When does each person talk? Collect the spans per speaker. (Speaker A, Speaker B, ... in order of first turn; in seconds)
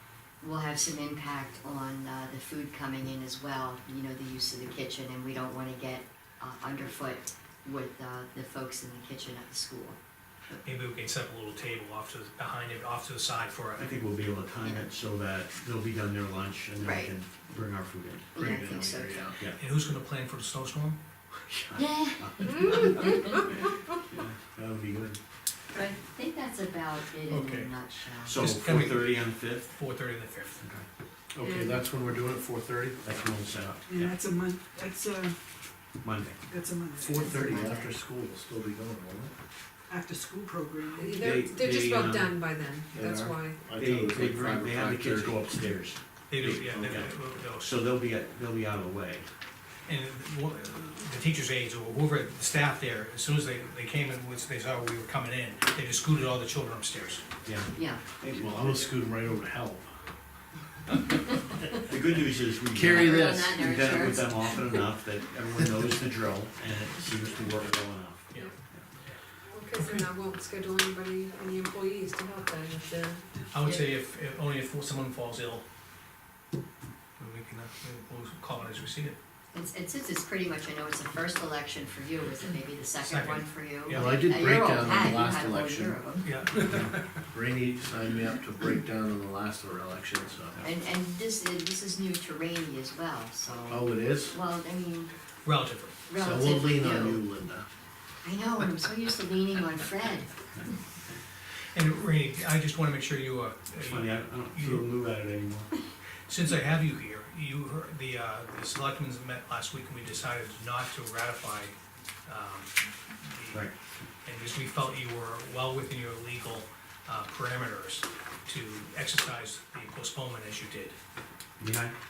Speaker A: 0.4-10.6, 16.8-17.1, 18.4-19.3, 21.8-23.4, 25.7-28.4, 37.1-37.9, 57.7-58.0, 62.9-64.6, 79.5-86.5, 90.6-95.1, 96.1-97.2, 98.2-100.3
Speaker B: 10.6-13.9, 19.6-21.0, 27.3-30.6, 46.3-47.8, 49.9-57.3, 73.5-75.7, 77.2-79.2, 83.0-84.2, 86.2-87.1, 95.5-96.0, 101.7-104.9, 106.3-113.7, 114.2-121.0
Speaker C: 13.8-18.3, 21.4-25.2, 28.2-29.7, 33.0-34.1, 36.0-36.4, 41.2-42.4, 43.8-49.3, 57.4-58.7, 61.8-68.9, 103.8-105.7, 113.5-113.8, 121.6-121.9
Speaker D: 18.4-19.5, 31.3-33.1, 37.0-39.3, 42.9-45.5, 46.4-46.9, 58.3-60.0, 62.7-63.7, 83.9-86.0, 87.3-90.7, 93.7-94.4, 96.2-97.7
Speaker E: 31.4-31.8, 41.0-43.6, 69.5-73.2
Speaker F: 33.9-35.4, 36.5-37.8, 39.9-41.5